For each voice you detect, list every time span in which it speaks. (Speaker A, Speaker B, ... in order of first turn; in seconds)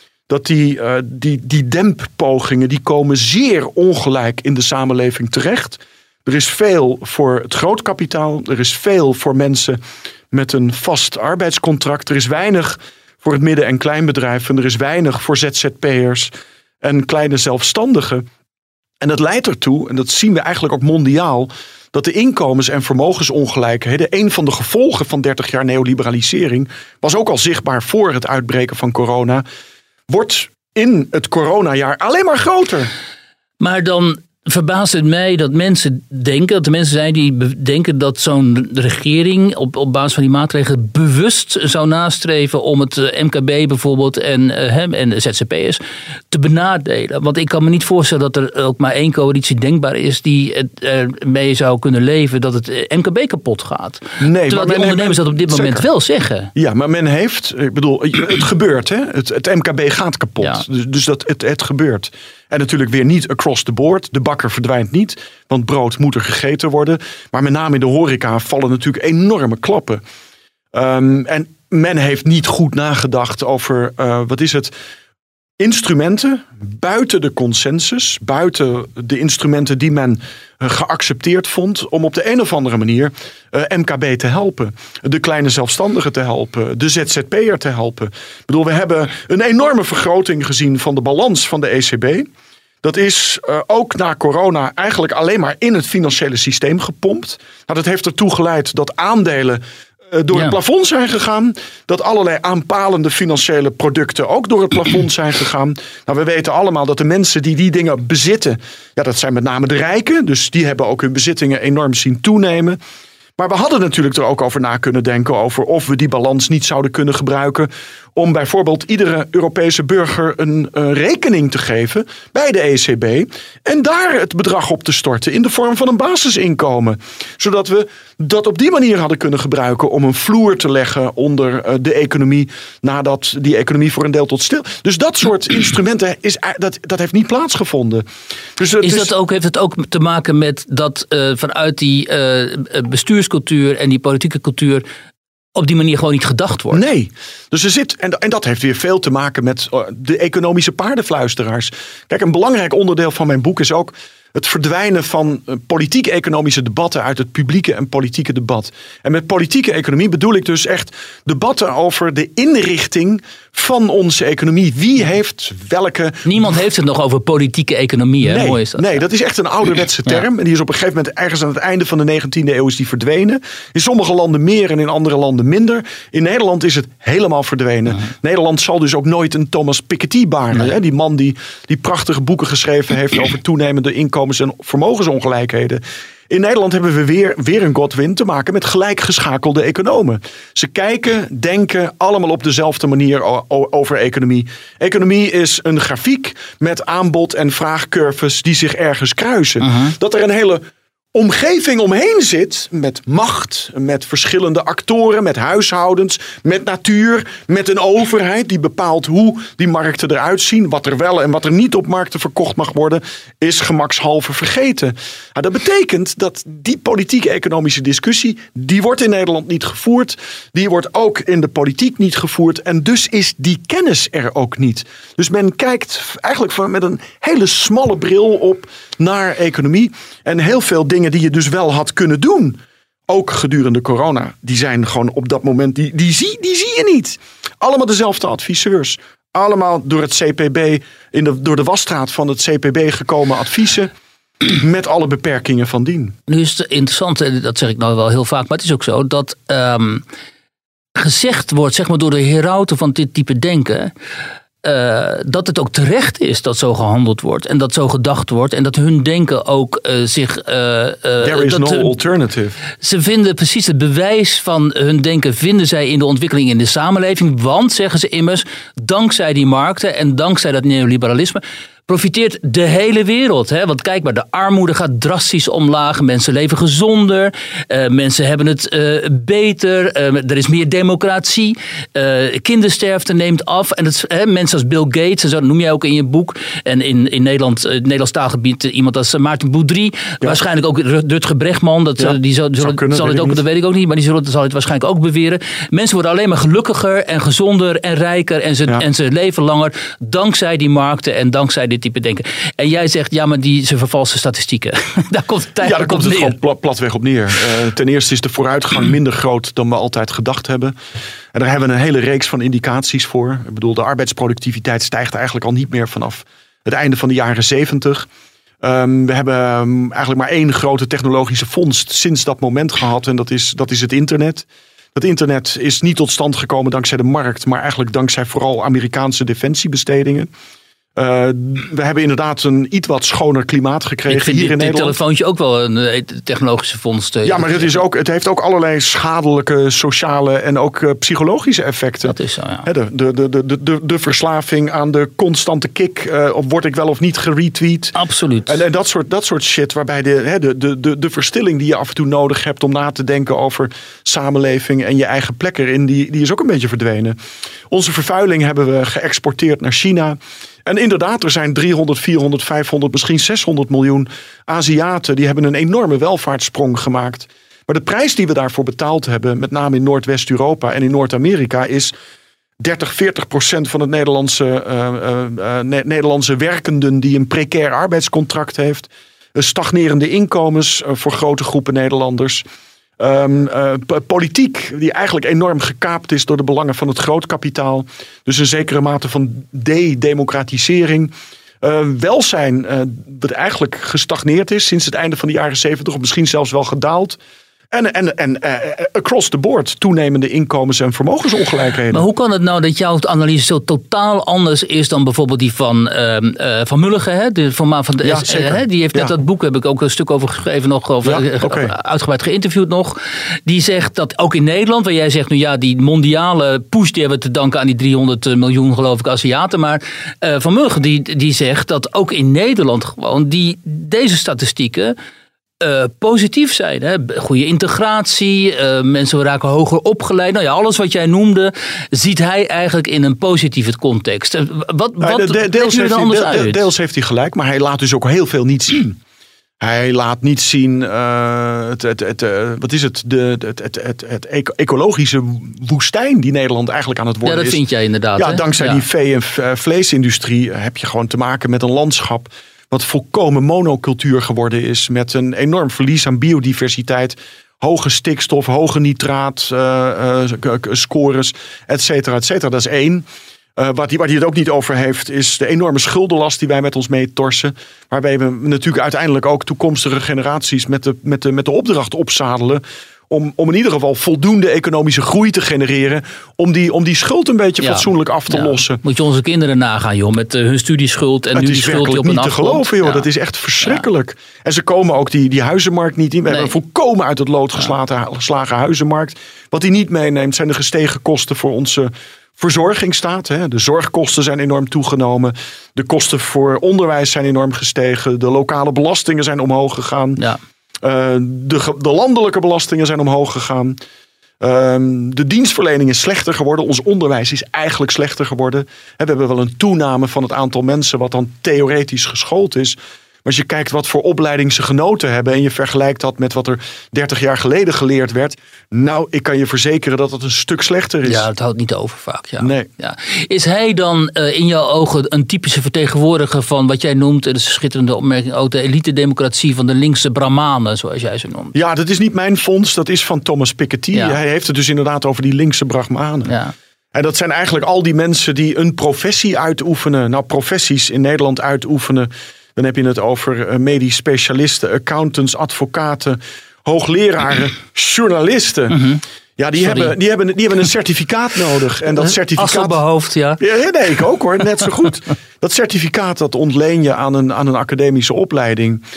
Speaker A: 0.3-9.8, 10.3-16.3, 16.8-18.2, 19.0-29.4, 30.1-32.9, 54.2-55.9, 56.5-70.0, 70.7-74.7, 75.6-92.3, 92.8-112.8, 113.4-139.1, 146.7-166.6, 168.2-200.6, 201.1-243.9, 244.4-246.1, 261.2-262.6, 292.0-293.4, 305.6-310.7, 311.3-318.1, 318.6-330.3, 330.9-335.0, 337.2-347.9, 348.4-357.2, 357.7-371.9, 372.6-382.4, 383.0-397.2, 397.7-402.1, 408.0-409.1, 411.0-411.7, 435.0-439.0, 439.6-447.6, 448.2-478.8, 481.3-500.2, 500.8-503.8, 504.4-521.3, 522.4-522.7, 531.5-536.3, 536.9-548.8, 549.4-552.8, 553.4-558.8
Speaker B: 33.6-56.5, 138.8-144.8, 145.6-146.8, 166.2-169.0, 199.6-199.9, 246.3-250.0, 250.9-253.9, 254.6-261.9, 262.8-306.4, 334.1-337.8, 342.0-342.7, 347.9-348.6, 401.9-424.9, 425.6-436.6, 447.2-448.8, 477.6-483.1, 521.0-531.5, 536.2-536.5, 548.7-549.0, 549.6-549.9, 552.0-553.4